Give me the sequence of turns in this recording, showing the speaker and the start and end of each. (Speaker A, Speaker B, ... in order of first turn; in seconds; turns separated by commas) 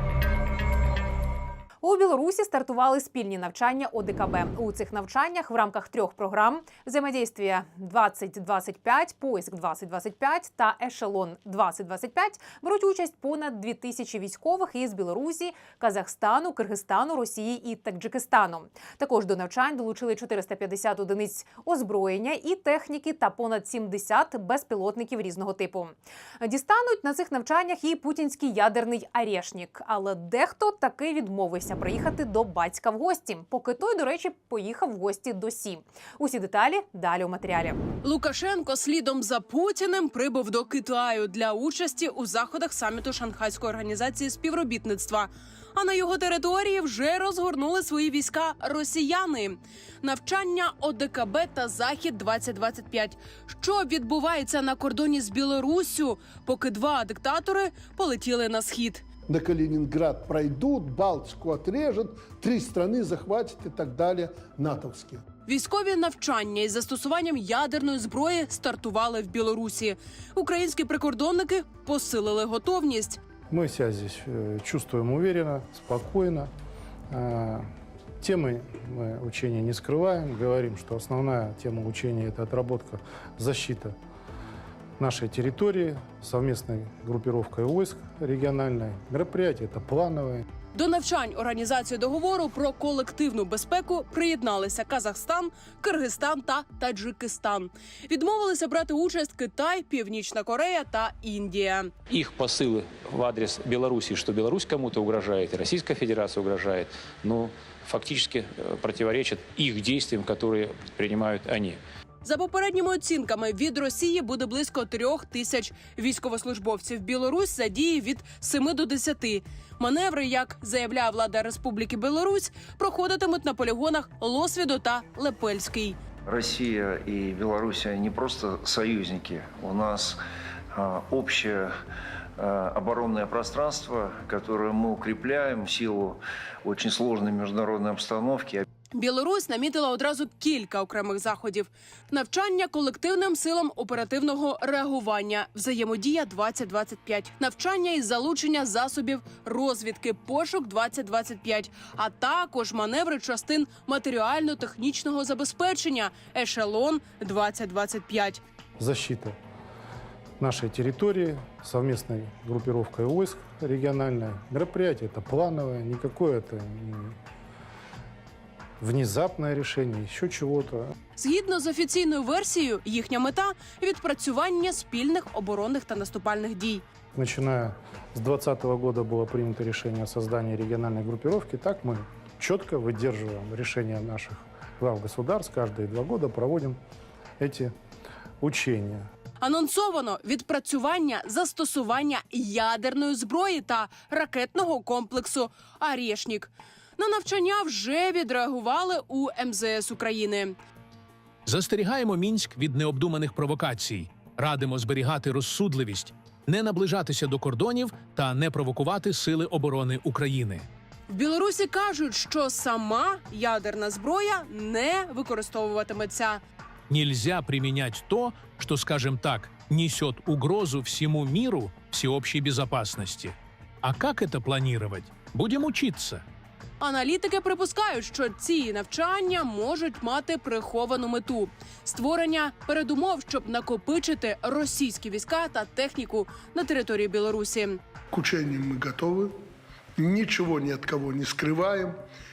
Speaker A: 1.8-37.8, Speaker B: 38.0-59.0, Speaker C: 59.3-65.2, Speaker B: 65.5-73.2, Speaker D: 73.5-76.5, Speaker D: 77.1-77.7, Speaker D: 78.2-84.0, Speaker D: 85.0-90.5, Speaker B: 90.7-101.9, Speaker E: 102.2-111.7, Speaker B: 112.2-126.0, Speaker F: 126.3-130.2, Speaker F: 130.7-131.7, Speaker F: 132.4-138.7, Speaker B: 138.9-158.4, Speaker D: 158.8-159.4, Speaker D: 160.4-167.2, Speaker D: 168.8-170.9, Speaker B: 171.2-176.8, Speaker D: 177.1-186.8, Speaker D: 187.4-187.7, Speaker D: 188.4-189.1, Speaker B: 189.4-200.5, Speaker G: 201.5-210.7, Speaker B: 211.1-216.4, Speaker G: 216.9-226.2, Speaker B: 226.8-237.8, Speaker C: 238.1-239.3, Speaker C: 240.0-242.0